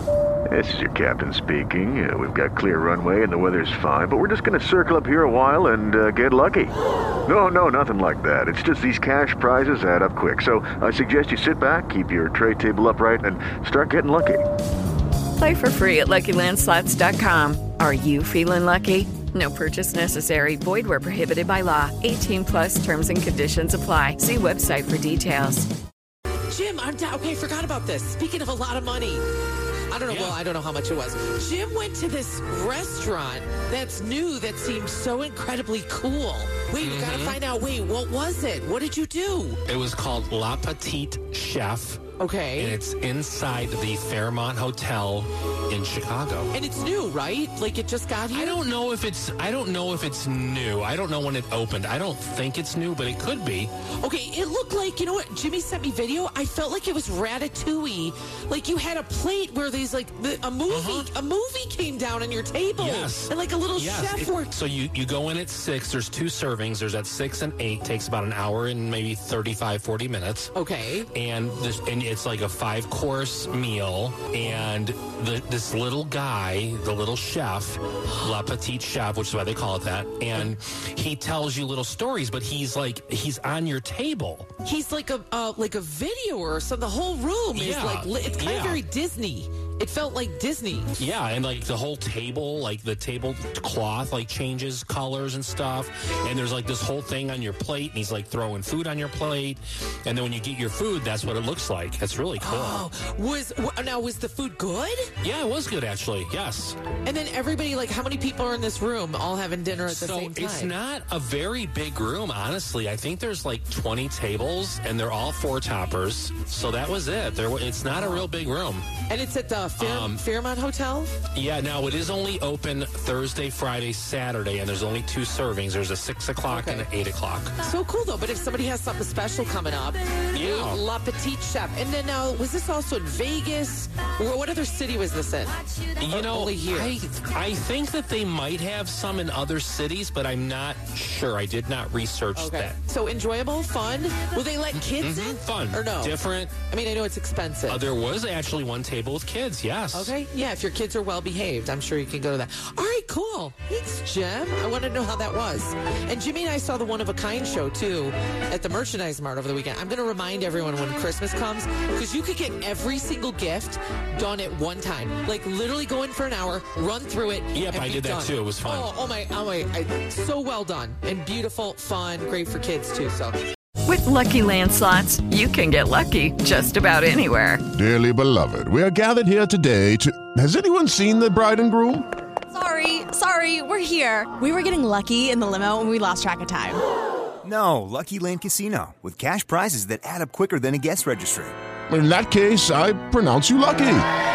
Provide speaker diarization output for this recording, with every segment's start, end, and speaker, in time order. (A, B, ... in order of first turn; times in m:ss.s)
0:00.5-0:06.7 A
0:07.2-0:14.4 A
0:15.4-0:25.7 B
0:26.5-0:29.2 C
0:29.9-0:39.6 C
0:30.0-0:30.4 D
0:36.8-0:37.4 D
0:39.6-0:42.0 D
0:42.2-0:42.8 C
0:42.6-0:46.5 D
0:46.5-0:48.6 C
0:48.3-0:53.7 D
0:53.9-1:04.5 C
1:00.7-1:01.1 D
1:02.8-1:10.5 D
1:10.5-1:11.1 C
1:11.1-1:24.5 D
1:24.6-1:30.9 C
1:27.5-1:28.8 D
1:31.0-1:42.9 D
1:42.4-1:45.1 C
1:45.2-1:46.8 D
1:47.0-1:50.7 C
1:49.9-1:58.9 D
1:57.9-1:58.3 C
1:59.0-2:01.2 C
1:59.8-2:00.2 D
2:01.3-2:07.6 D
2:06.5-2:06.9 C
2:07.6-2:17.0 C
2:10.3-2:10.8 D
2:16.0-2:22.8 D
2:22.4-2:27.8 C
2:24.8-2:26.6 D
2:27.7-2:30.1 D
2:29.9-2:53.4 C
2:47.5-2:48.9 D
2:53.8-2:57.6 B
2:57.7-3:02.0 E
3:02.5-3:06.8 F
3:07.4-3:11.5 G
3:11.9-3:14.0 E